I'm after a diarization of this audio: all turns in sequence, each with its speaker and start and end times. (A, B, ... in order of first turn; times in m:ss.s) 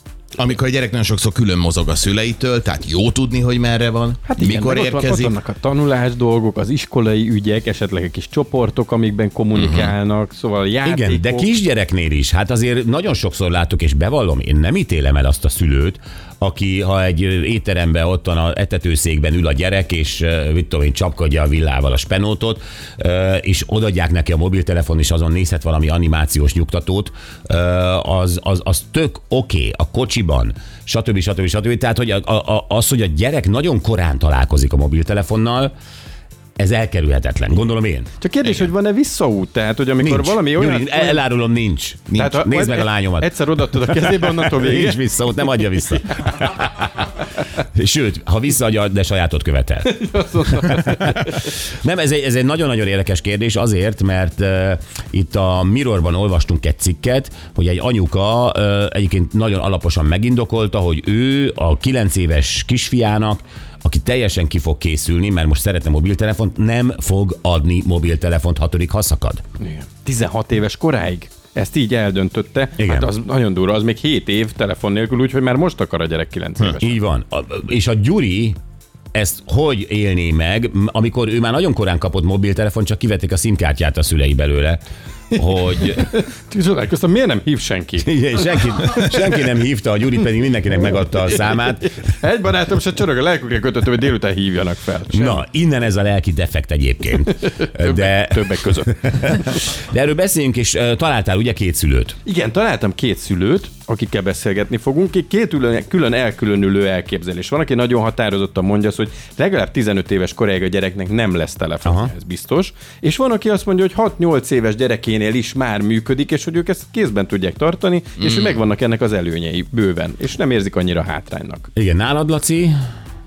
0:00.4-0:05.4 A
0:04.2-0:11.5 B
0:09.5-0:09.9 A
0:10.8-0:35.7 C
0:36.6-0:38.1 C
0:38.2-0:41.2 B
0:40.0-0:43.3 C
0:42.2-0:45.0 B
0:44.0-0:47.1 C
0:47.7-0:49.9 C
0:49.8-0:51.4 B
0:51.8-1:09.4 C
1:09.6-1:17.0 B
1:12.8-1:13.1 C
1:16.7-1:18.6 C
1:19.1-1:24.8 C
1:25.3-1:26.1 C
1:25.8-1:29.1 B
1:28.0-1:31.9 C
1:32.0-1:35.4 B
1:35.1-1:42.2 C
1:37.4-1:39.4 B
1:42.2-2:01.7 B
1:51.8-1:52.1 C
1:58.2-1:58.6 A
2:01.8-2:02.8 C